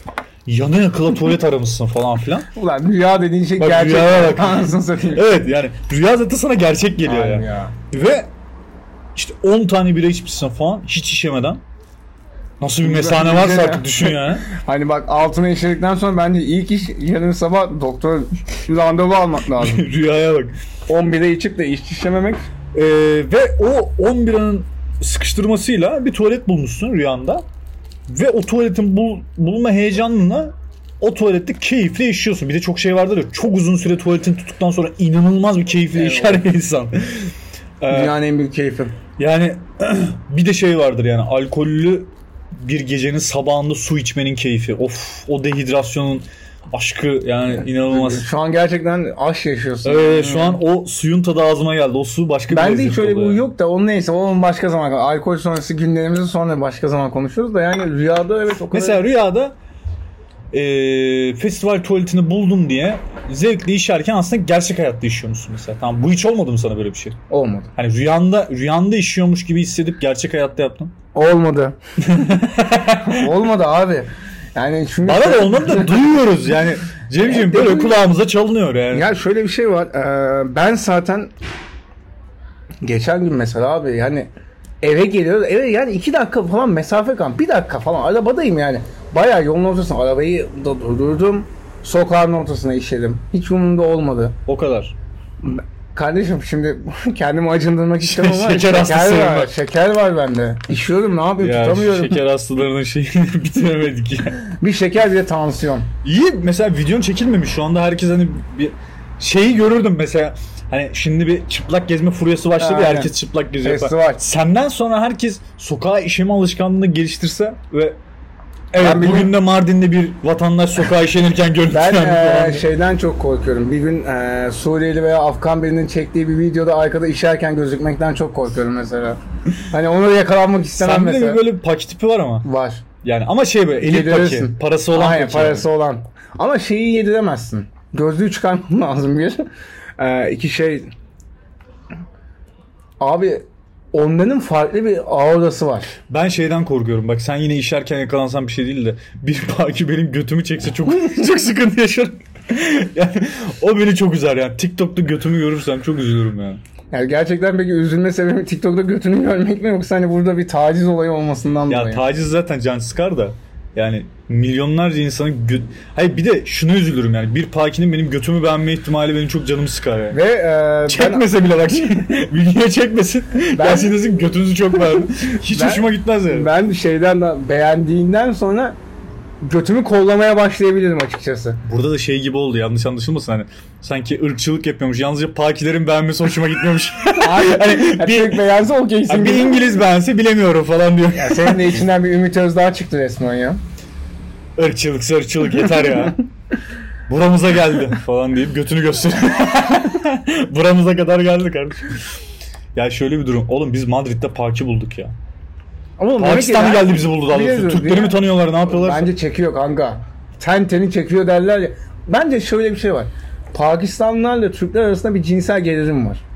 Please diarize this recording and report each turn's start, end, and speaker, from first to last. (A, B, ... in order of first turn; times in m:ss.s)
0:00.4-0:02.5 A
0:02.5-0:05.2 B
0:03.6-0:08.3 A
0:07.0-0:07.7 B
0:09.1-0:11.6 A
0:12.6-0:14.4 A
0:12.8-0:19.8 B
0:19.5-0:20.5 A
0:20.9-0:22.5 B
0:22.7-0:27.4 A
0:28.1-0:38.1 A
0:35.9-0:36.4 B
0:37.9-0:38.9 B
0:39.2-0:48.3 A
0:47.6-0:50.6 B
0:49.8-0:53.4 A
0:52.5-0:59.0 B
0:58.7-0:59.6 A
1:00.5-1:07.2 A
1:07.3-1:07.7 B
1:07.8-1:10.9 A
1:11.1-1:11.8 B
1:12.0-1:13.3 A
1:13.0-1:16.1 B
1:15.0-1:19.1 A
1:17.2-1:18.0 B
1:18.9-1:21.3 B
1:22.8-1:24.3 B
1:24.8-1:34.4 B
1:34.5-1:34.9 A
1:35.4-1:42.2 B
1:38.0-1:39.5 A
1:41.4-1:44.4 A
1:44.5-1:45.9 B
1:46.0-1:58.0 A
1:52.6-1:54.2 B
1:58.7-2:02.7 A
1:58.7-1:59.3 B
2:01.7-2:11.4 B
2:10.8-2:12.4 A
2:12.4-2:12.8 B
2:13.0-2:15.7 A
2:13.8-2:19.4 B
2:20.0-2:20.9 B
2:23.0-2:26.0 B
2:26.1-2:36.6 A
2:36.9-2:42.0 B
2:41.7-2:50.2 A
2:50.1-2:51.3 B
2:50.9-2:56.5 A
2:53.5-2:53.9 B
2:55.5-2:58.8 B
2:59.4-3:01.6 B
3:01.6-3:08.4 A
3:07.2-3:09.6 B
3:09.1-3:11.8 A
3:11.1-3:13.6 B
3:14.6-3:16.2 A
3:17.1-3:21.9 A
3:22.7-3:25.1 A
3:26.0-3:36.2 B
3:26.2-3:29.1 A